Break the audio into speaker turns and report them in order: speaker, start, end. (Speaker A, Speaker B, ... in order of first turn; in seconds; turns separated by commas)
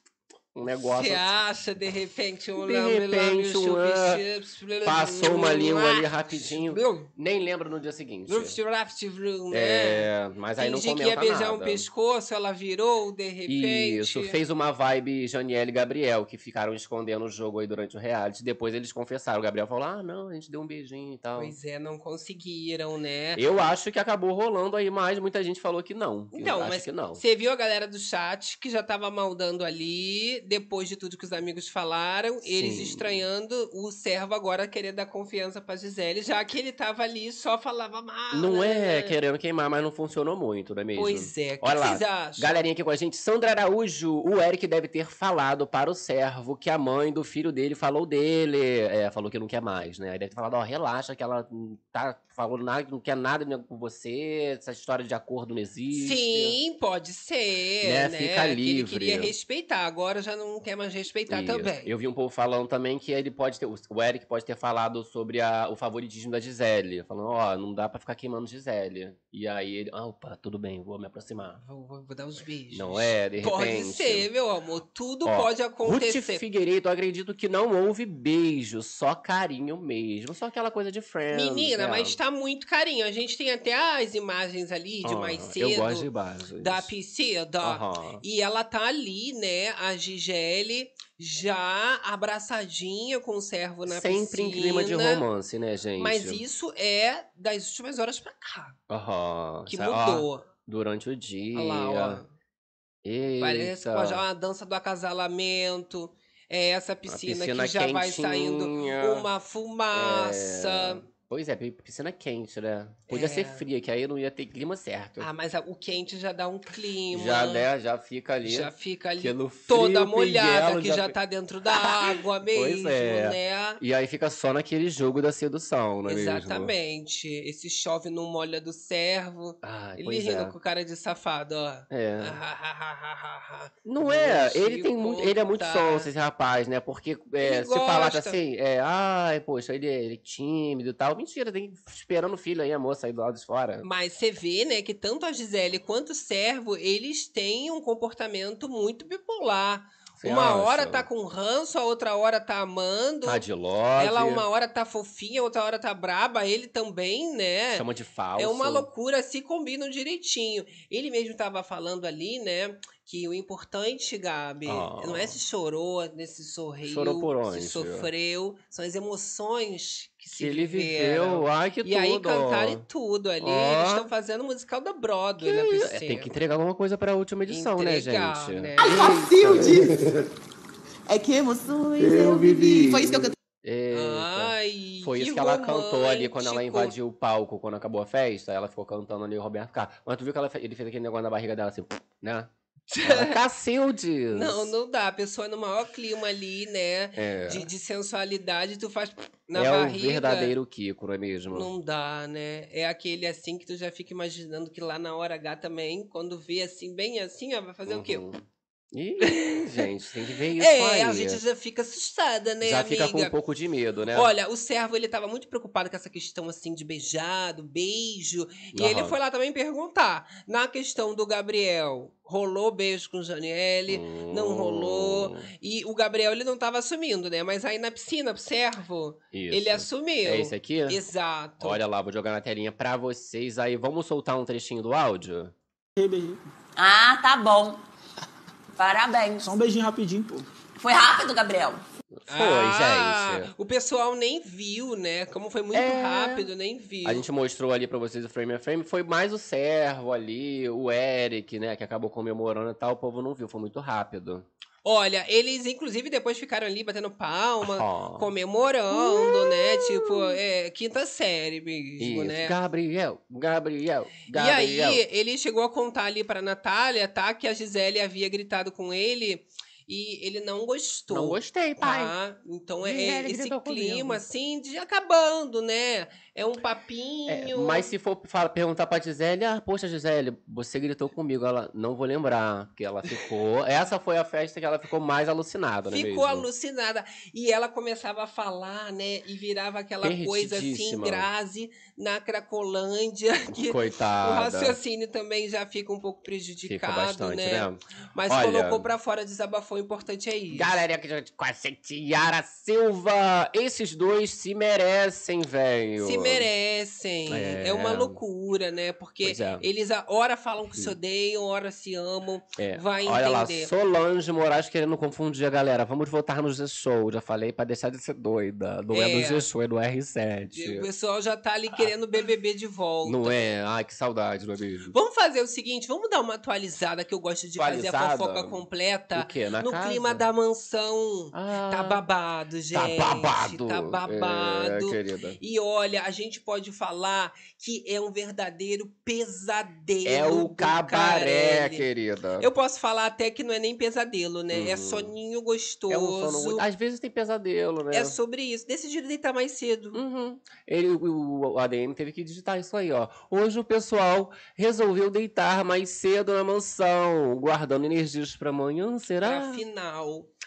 Speaker A: 0.5-1.3, Speaker B: 0.8-7.1, Speaker A: 2.5-4.2, Speaker A: 4.8-8.6, Speaker B: 8.3-14.4, Speaker A: 9.5-11.9, Speaker A: 13.5-21.5, Speaker B: 21.4-23.4, Speaker A: 23.4-27.2, Speaker B: 26.3-39.2, Speaker A: 32.4-33.2, Speaker A: 38.3-56.6, Speaker B: 40.9-42.6, Speaker B: 55.9-61.9, Speaker A: 57.8-59.3, Speaker A: 61.3-71.6, Speaker B: 71.6-76.4, Speaker A: 72.7-74.3, Speaker A: 75.2-82.2, Speaker B: 81.3-86.1, Speaker A: 85.0-86.9, Speaker B: 86.6-95.2, Speaker A: 87.6-88.2, Speaker A: 93.8-96.4, Speaker B: 96.0-98.8, Speaker A: 98.9-102.2, Speaker B: 99.7-100.5, Speaker B: 101.5-102.3, Speaker A: 103.0-104.2, Speaker B: 103.4-111.0, Speaker A: 107.1-109.3, Speaker A: 109.9-115.3, Speaker B: 113.1-113.6, Speaker B: 115.2-117.7, Speaker A: 117.1-121.1, Speaker B: 118.4-123.8, Speaker A: 121.7-126.7, Speaker B: 126.1-136.1, Speaker A: 129.6-130.6, Speaker A: 131.9-132.4, Speaker A: 133.8-143.9, Speaker B: 137.4-138.4, Speaker B: 143.8-153.4, Speaker A: 150.2-151.1, Speaker A: 153.2-154.4, Speaker B: 153.9-176.3, Speaker A: 157.7-158.9, Speaker A: 164.6-165.4, Speaker A: 166.8-168.1, Speaker A: 170.3-172.8, Speaker A: 173.4-174.1, Speaker A: 175.4-178.7, Speaker B: 177.5-178.9, Speaker C: 178.8-180.2, Speaker D: 178.9-180.1, Speaker C: 181.1-183.3, Speaker D: 182.0-183.3, Speaker A: 183.6-192.5, Speaker B: 183.9-186.9, Speaker B: 192.9-193.4, Speaker A: 193.0-194.7, Speaker B: 194.3-200.5, Speaker A: 197.2-197.7, Speaker A: 199.5-201.7, Speaker B: 201.5-208.2, Speaker A: 207.9-211.4, Speaker B: 209.2-209.8, Speaker B: 210.6-213.3, Speaker A: 212.6-214.3, Speaker B: 214.1-231.8, Speaker A: 218.7-219.2, Speaker A: 223.9-225.5, Speaker A: 229.3-231.0, Speaker A: 231.6-235.5, Speaker D: 235.9-236.4, Speaker E: 236.8-237.8, Speaker E: 238.8-239.5, Speaker D: 239.4-240.5, Speaker E: 240.8-241.8, Speaker A: 242.2-243.5, Speaker B: 242.3-247.2, Speaker A: 245.7-246.5, Speaker A: 247.0-254.5, Speaker B: 254.8-262.6, Speaker A: 257.6-258.3, Speaker A: 258.9-260.4, Speaker A: 262.0-265.0, Speaker B: 264.3-277.9, Speaker A: 271.1-272.1, Speaker A: 272.8-274.2, Speaker A: 277.3-286.5, Speaker B: 285.9-300.8, Speaker A: 290.0-291.3, Speaker A: 293.5-294.8, Speaker A: 296.6-298.9, Speaker A: 300.5-306.5, Speaker B: 306.0-313.7, Speaker A: 307.3-308.2, Speaker A: 309.2-309.7, Speaker A: 312.6-320.9, Speaker B: 318.9-319.5, Speaker B: 320.5-323.4, Speaker A: 323.0-324.9, Speaker B: 324.9-341.8, Speaker A: 327.6-330.2, Speaker A: 331.3-332.0, Speaker A: 332.7-335.4, Speaker A: 340.0-342.5, Speaker B: 342.4-346.6, Speaker A: 344.5-345.1, Speaker A: 345.9-348.2, Speaker B: 347.9-350.0, Speaker A: 349.9-359.6, Speaker B: 359.2-360.3